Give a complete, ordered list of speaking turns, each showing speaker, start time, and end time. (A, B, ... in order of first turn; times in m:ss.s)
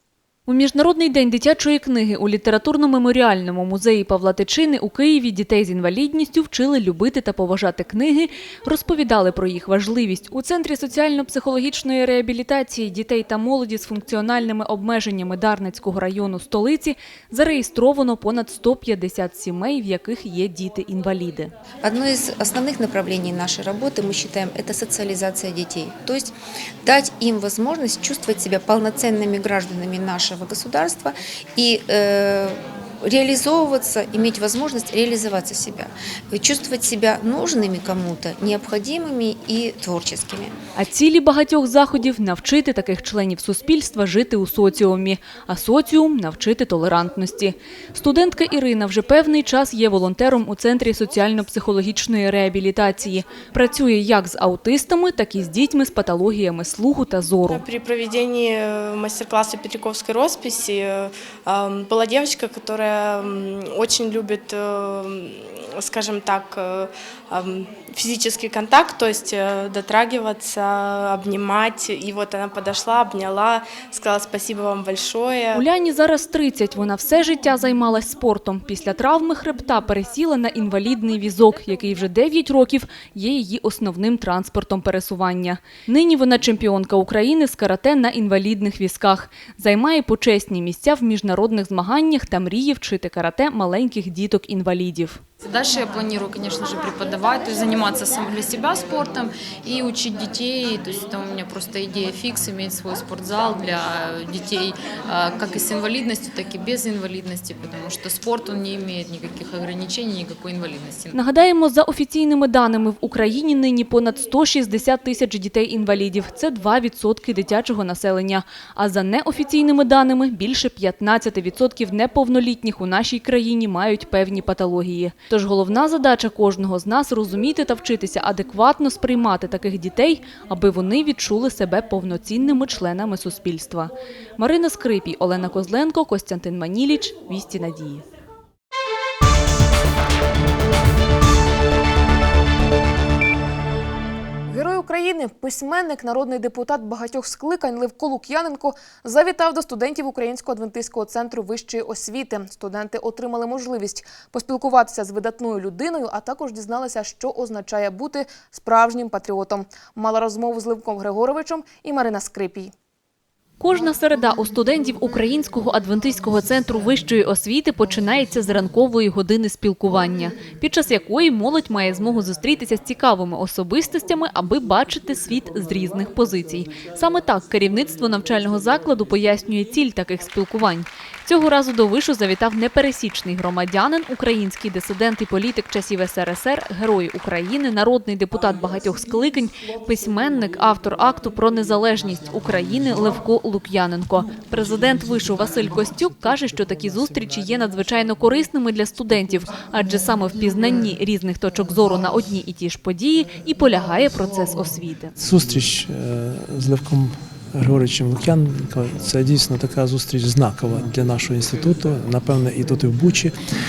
0:00.5-0:21.5 A
0:21.8-0:40.6 B
0:40.8-0:57.6 A
0:57.5-1:15.6 C
1:15.5-1:35.2 A
1:35.4-1:51.2 D
1:51.1-2:18.0 A
2:24.5-2:42.7 E
2:43.6-3:25.1 A
3:25.2-3:33.4 F